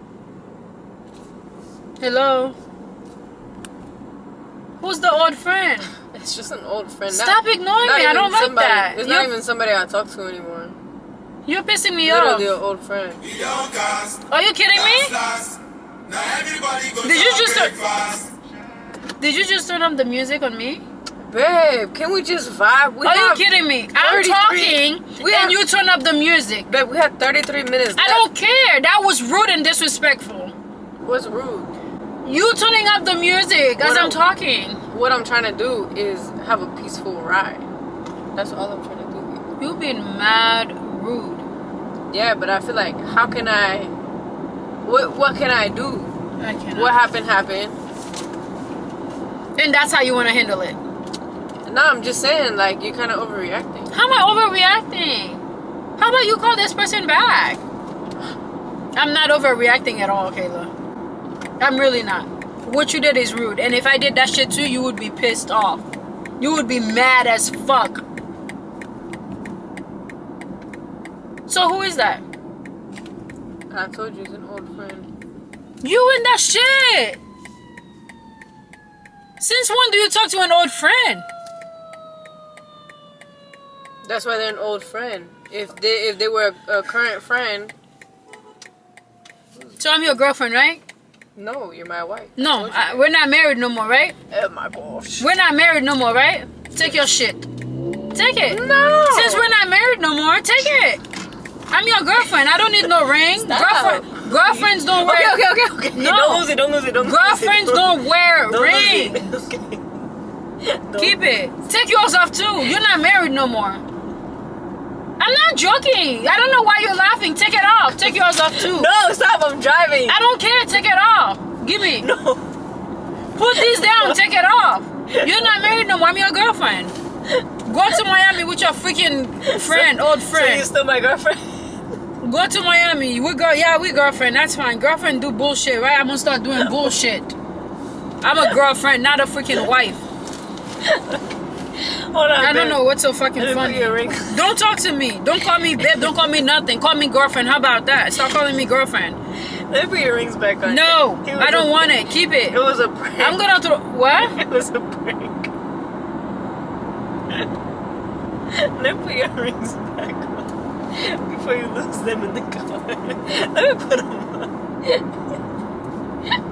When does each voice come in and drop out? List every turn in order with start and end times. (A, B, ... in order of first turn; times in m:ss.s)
0:02.0-0:02.6 A
0:04.8-0:05.9 A
0:06.1-0:10.8 B
0:07.1-0:09.3 A
0:11.4-0:12.5 A
0:12.0-0:13.2 B
0:14.3-0:15.2 A
0:16.9-0:17.9 A
0:19.2-0:20.8 A
0:21.2-0:25.6 B
0:23.0-0:26.7 A
0:26.7-0:28.3 B
0:28.0-0:30.5 A
0:31.0-0:31.7 B
0:32.2-0:34.8 A
0:33.8-0:34.2 B
0:34.9-0:37.6 B
0:38.3-0:39.5 B
0:39.6-0:41.4 A
0:42.1-0:43.9 B
0:44.8-0:46.1 B
0:46.4-0:46.9 A
0:46.7-0:47.7 B
0:49.6-0:50.8 A
0:51.6-0:53.9 B
0:53.9-0:55.4 A
0:56.0-0:57.6 A
0:58.9-1:00.7 A
1:01.6-1:05.8 A
1:06.4-1:08.0 A
1:11.5-1:12.2 A
1:13.7-1:15.1 B
1:15.8-1:17.2 A
1:19.4-1:21.2 A
1:24.0-1:27.7 B
1:29.8-1:30.8 A
1:31.4-1:33.1 B
1:32.4-1:34.1 A
1:34.3-1:35.3 B
1:35.2-1:37.5 A
1:38.1-1:41.0 A
1:38.5-1:39.5 B
1:41.7-1:45.4 A
1:43.4-1:49.8 B
1:45.9-1:46.5 A
1:47.0-1:49.4 A
1:50.6-1:51.3 B
1:51.0-1:53.8 A
1:55.2-1:58.9 A
1:58.0-2:00.2 B
2:00.1-2:02.1 A
2:02.0-2:02.4 B
2:03.3-2:06.9 A
2:03.5-2:04.2 B
2:05.1-2:05.6 B
2:07.6-2:10.7 A
2:09.4-2:11.6 B
2:12.2-2:17.3 A
2:16.6-2:16.9 B
2:18.2-2:20.0 A
2:20.8-2:21.2 B
2:21.8-2:22.8 B
2:22.4-2:29.2 A
2:23.4-2:24.5 B
2:25.8-2:26.1 B
2:29.7-2:33.4 B
2:30.6-2:32.6 A
2:33.2-2:34.4 A
2:34.2-2:35.5 B
2:38.5-2:44.5 B